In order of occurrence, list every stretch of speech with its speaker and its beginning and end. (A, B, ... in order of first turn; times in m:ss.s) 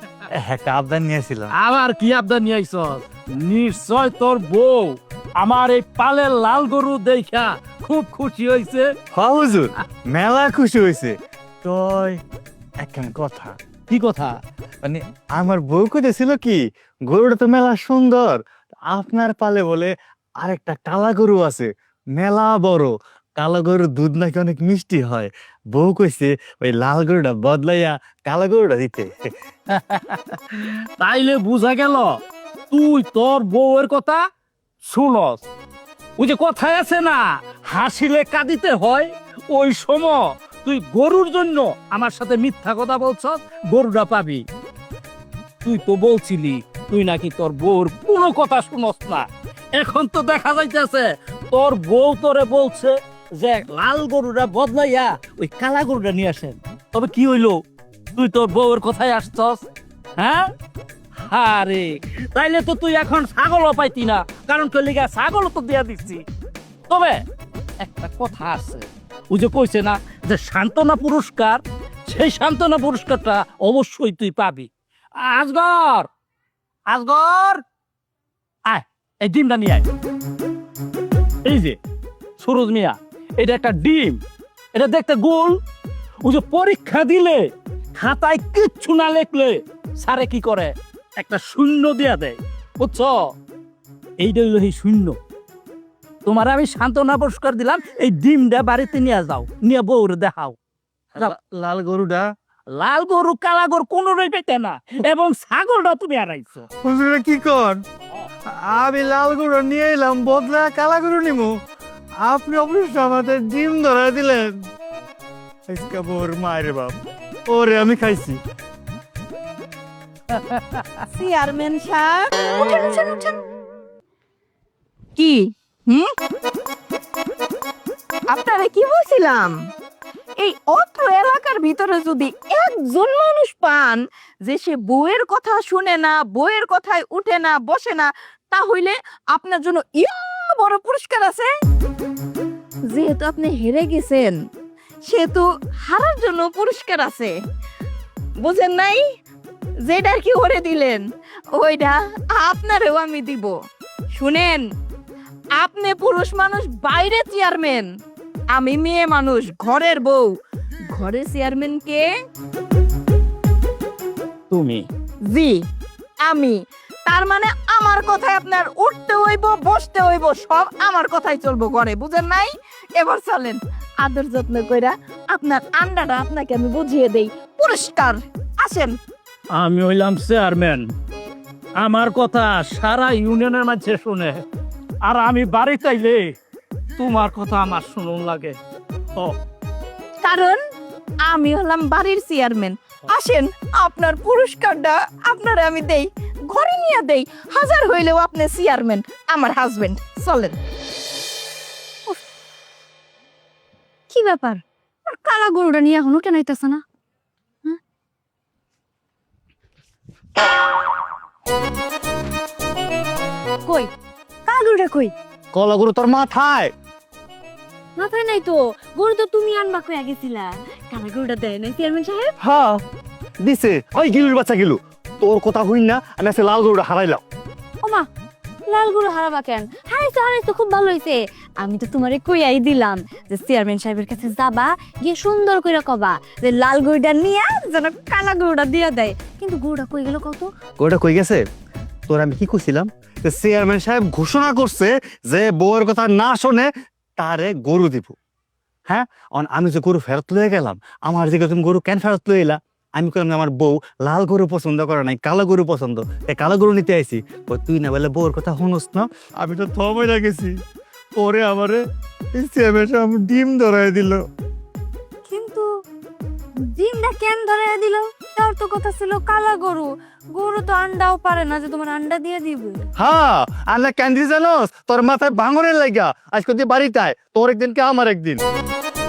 0:00.3-0:01.5 A
0:01.5-0:08.9 B
0:09.1-0:12.2 A
0:12.8-0:13.6 A
0:13.9-0:14.4 B
0:14.8-0:29.1 A
0:29.7-0:32.1 B
0:32.7-0:34.2 B
0:34.8-0:35.4 B
0:36.2-0:44.4 B
0:45.6-0:57.6 B
0:58.1-0:59.6 B
1:00.2-1:00.5 B
1:01.3-1:06.2 B
1:06.9-1:07.2 B
1:07.8-1:14.7 B
1:15.2-1:16.1 B
1:16.9-1:17.6 B
1:18.7-1:19.8 B
1:21.4-1:21.8 B
1:22.4-1:24.2 B
1:24.7-1:25.6 B
1:26.2-1:27.5 B
1:28.0-1:33.2 B
1:34.2-1:35.2 B
1:36.2-1:40.6 B
1:41.2-1:42.2 A
1:42.7-1:46.7 B
1:46.8-1:47.8 A
1:48.6-1:51.5 A
1:52.2-1:54.6 A
1:55.7-1:58.4 A
2:00.3-2:01.0 B
2:01.1-2:02.4 C
2:02.6-2:03.4 D
2:05.2-2:06.1 C
2:08.3-2:09.5 C
2:10.4-2:21.5 C
2:22.9-2:24.4 C
2:25.1-2:27.3 C
2:28.4-2:29.0 C
2:29.8-2:33.5 C
2:34.2-2:34.6 C
2:35.6-2:37.9 C
2:38.5-2:40.3 C
2:40.9-2:42.1 C
2:44.5-2:44.8 B
2:45.3-2:45.6 C
2:46.2-2:58.9 C
2:59.5-3:00.9 B
3:01.8-3:04.4 B
3:05.0-3:06.2 B
3:07.0-3:08.6 B
3:10.2-3:10.6 C
3:11.3-3:20.6 C
3:24.1-3:26.8 D
3:33.6-3:33.9 D
3:34.4-3:35.1 D
3:35.5-3:36.7 A
3:38.0-3:42.3 D
3:42.4-3:42.8 A
3:43.4-3:47.2 A
3:48.6-4:00.5 D
4:00.8-4:01.4 A
4:02.1-4:08.2 A
4:08.9-4:20.5 A
4:21.2-4:21.8 A
4:22.3-4:24.2 A
4:25.3-4:25.7 D
4:26.6-4:32.8 D
4:33.0-4:38.4 A